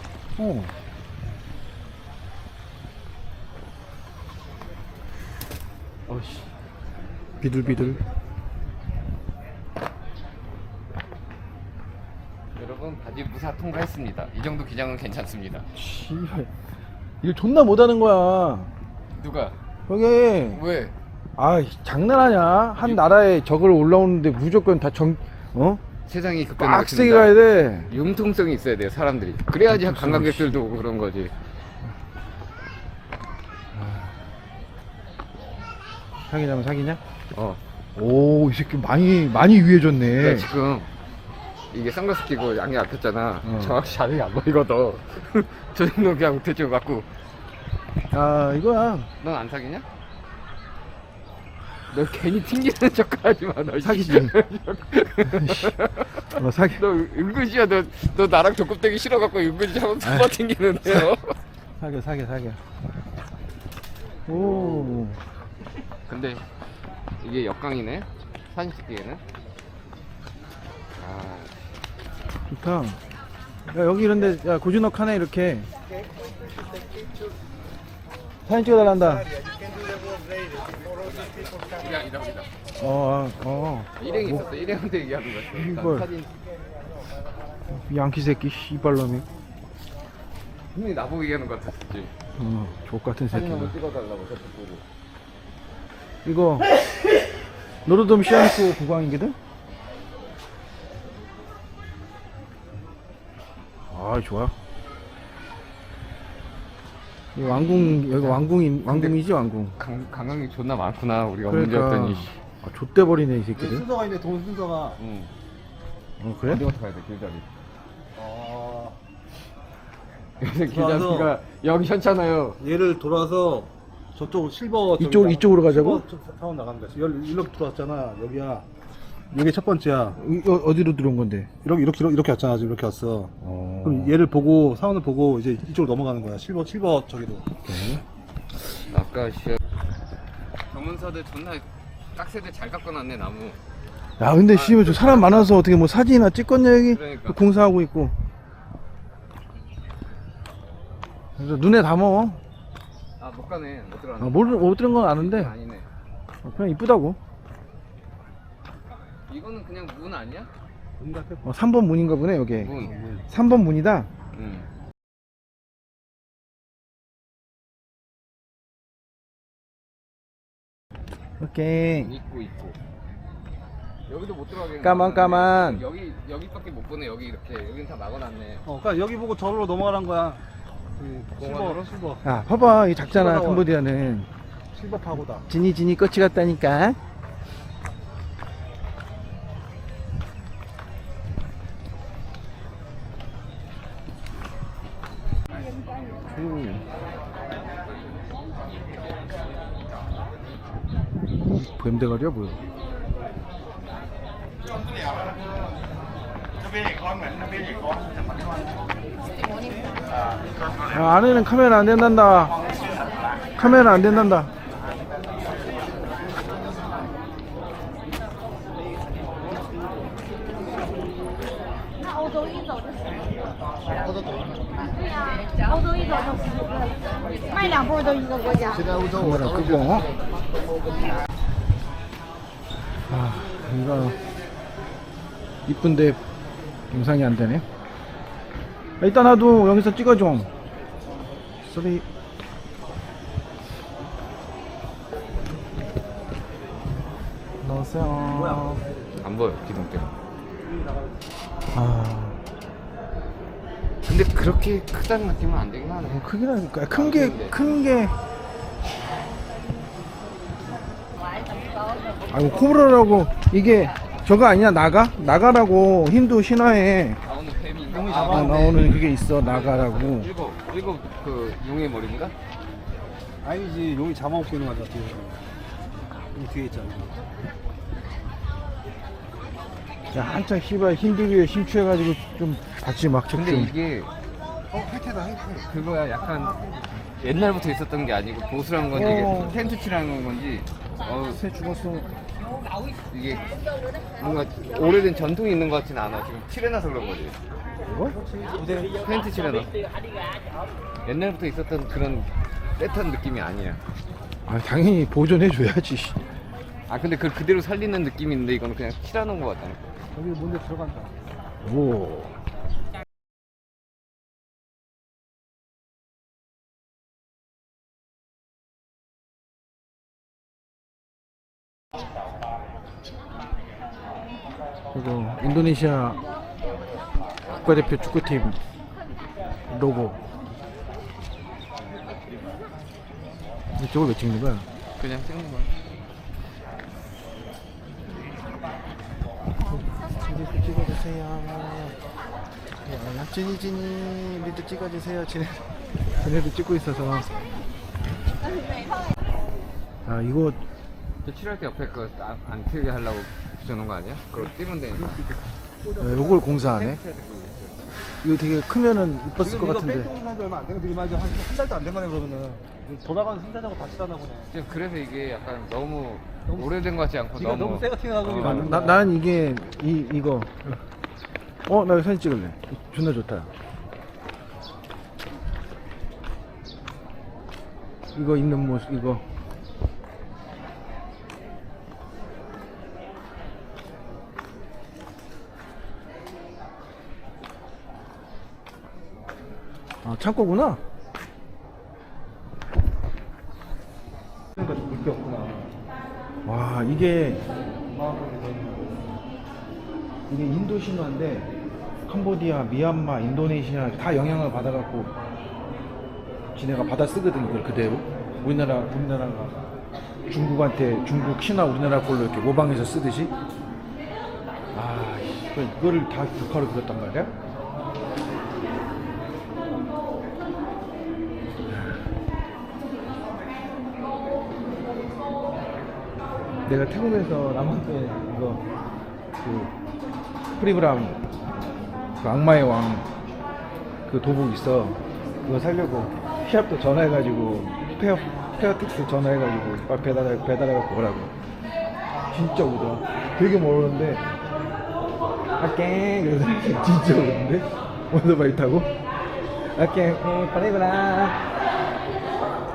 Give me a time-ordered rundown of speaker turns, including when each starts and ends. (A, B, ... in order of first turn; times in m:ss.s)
0:00.4-0:00.7 A
0:06.1-0:06.5 A
0:07.4-0:08.0 A
0:12.6-0:15.6 B
0:15.8-0:16.5 A
0:17.2-0:18.7 A
0:19.2-0:19.6 B
0:19.9-0:20.6 A
0:20.5-0:20.9 B
0:21.4-0:25.8 A
0:22.8-0:23.2 B
0:26.1-0:31.3 B
0:26.6-0:27.9 A
0:29.7-0:30.6 A
0:33.8-0:34.1 A
0:36.3-0:37.0 A
0:37.3-0:37.6 B
0:38.0-0:40.5 A
0:40.1-0:40.9 B
0:41.7-0:47.1 B
0:43.4-0:43.8 A
0:48.1-0:49.1 A
0:49.2-0:49.8 B
0:51.9-1:01.4 B
0:53.8-0:54.4 A
0:55.3-0:55.7 A
0:56.4-0:56.8 A
1:00.0-1:00.3 A
1:01.8-1:02.6 A
1:04.3-1:05.2 A
1:04.3-1:05.0 B
1:06.1-1:06.4 B
1:07.2-1:09.2 B
1:10.9-1:11.6 B
1:12.5-1:13.0 A
1:13.7-1:15.7 A
1:18.5-1:19.3 A
1:21.6-1:22.5 B
1:22.8-1:24.5 A
1:24.0-1:26.4 B
1:25.5-1:26.1 A
1:27.7-1:29.2 A
1:30.7-1:32.1 B
1:32.4-1:33.8 A
1:33.3-1:34.8 B
1:36.2-1:36.7 A
1:37.8-1:39.4 A
1:43.9-1:44.5 A
1:47.4-1:49.8 A
1:47.5-1:49.2 B
1:49.8-1:52.3 B
1:51.5-1:53.8 A
1:53.6-1:55.0 C
1:55.0-1:55.3 B
1:56.2-1:56.6 A
1:56.5-1:57.4 B
1:58.2-1:59.0 C
2:00.4-2:02.6 B
2:00.7-2:01.3 C
2:02.6-2:08.7 C
2:05.0-2:06.0 A
2:09.3-2:10.2 C
2:10.2-2:11.5 A
2:11.6-2:13.3 C
2:13.4-2:14.2 A
2:13.8-2:17.5 C
2:17.7-2:18.0 A
2:18.6-2:19.6 B
2:20.7-2:23.6 B
2:24.2-2:28.1 A
2:24.5-2:25.6 B
2:26.9-2:27.4 B
2:31.4-2:32.4 A
2:33.2-2:35.9 B
2:34.2-2:35.5 A
2:36.4-2:37.2 A
2:39.3-2:40.5 B
2:41.0-2:41.5 C
2:41.4-2:42.8 A
2:42.6-2:43.0 B
2:42.8-2:43.2 C
2:43.3-2:44.1 A
2:44.3-2:44.7 B
2:51.4-2:52.1 A
2:52.0-2:52.8 B
2:54.1-2:58.7 B
2:54.8-2:55.8 A
2:58.6-3:00.4 C
3:01.0-3:03.7 C
3:01.4-3:01.9 B
3:02.2-3:04.3 A
3:04.7-3:05.4 C
3:05.5-3:07.0 A
3:16.2-3:16.8 A
3:21.4-3:22.6 A
3:30.9-3:32.6 A
3:33.6-3:34.5 A
3:49.0-3:50.1 A
3:53.1-3:54.2 A
3:55.7-3:56.2 A
3:56.9-3:57.6 A
3:59.0-4:00.5 A
4:01.6-4:02.0 A
4:07.6-4:08.8 A
4:08.3-4:09.1 C
4:09.2-4:10.1 B
4:10.6-4:11.3 C
4:11.7-4:12.4 A
4:14.0-4:16.3 B
4:16.1-4:18.2 A
4:16.9-4:17.6 B
4:22.3-4:27.2 A
4:27.2-4:32.3 B
4:27.9-4:29.0 C
4:28.2-4:30.3 A
4:33.4-4:35.4 C
4:36.3-4:37.2 C
4:40.1-4:43.7 A
4:43.3-4:44.1 B
4:44.7-4:45.7 C
4:45.7-4:46.6 B
4:46.6-4:46.9 C
4:47.2-4:51.4 B
4:48.9-4:49.6 A
4:51.3-4:52.1 A
4:53.1-4:53.5 B
4:54.2-4:57.4 B
4:57.9-4:58.2 A
4:58.1-4:59.1 C
4:59.0-4:59.7 B
5:01.0-5:03.8 B
5:04.5-5:06.2 A
5:06.9-5:09.9 B
5:10.1-5:11.2 C
5:11.6-5:12.4 A
5:24.9-5:26.2 A
5:27.5-5:28.6 A
5:29.7-5:30.2 A
5:33.8-5:34.7 A
5:35.0-5:35.7 B
5:39.7-5:42.0 A
5:42.8-5:47.3 A
5:50.1-5:50.6 A
5:51.2-5:55.2 B
5:55.0-5:56.6 C
5:56.0-5:57.0 A
5:56.7-5:57.9 B
5:58.2-6:00.1 A
5:59.4-6:04.5 C
6:04.5-6:08.8 B
6:06.5-6:06.8 C
6:07.4-6:09.2 C
6:08.4-6:10.6 A
6:11.7-6:13.5 A
6:18.1-6:19.2 A
6:30.0-6:30.8 A
6:34.6-6:35.8 C
6:36.4-6:37.4 A
6:37.9-6:39.2 C
6:40.3-6:41.5 A
6:42.1-6:45.1 A
6:46.6-6:49.6 A
6:50.3-6:53.3 A
6:54.7-6:57.3 A
7:06.7-7:08.6 A
7:09.4-7:09.7 A
7:10.6-7:11.2 A
7:12.2-7:13.1 A
7:14.1-7:21.3 A
7:22.3-7:24.2 A
7:25.6-7:28.9 A
7:29.8-7:31.4 A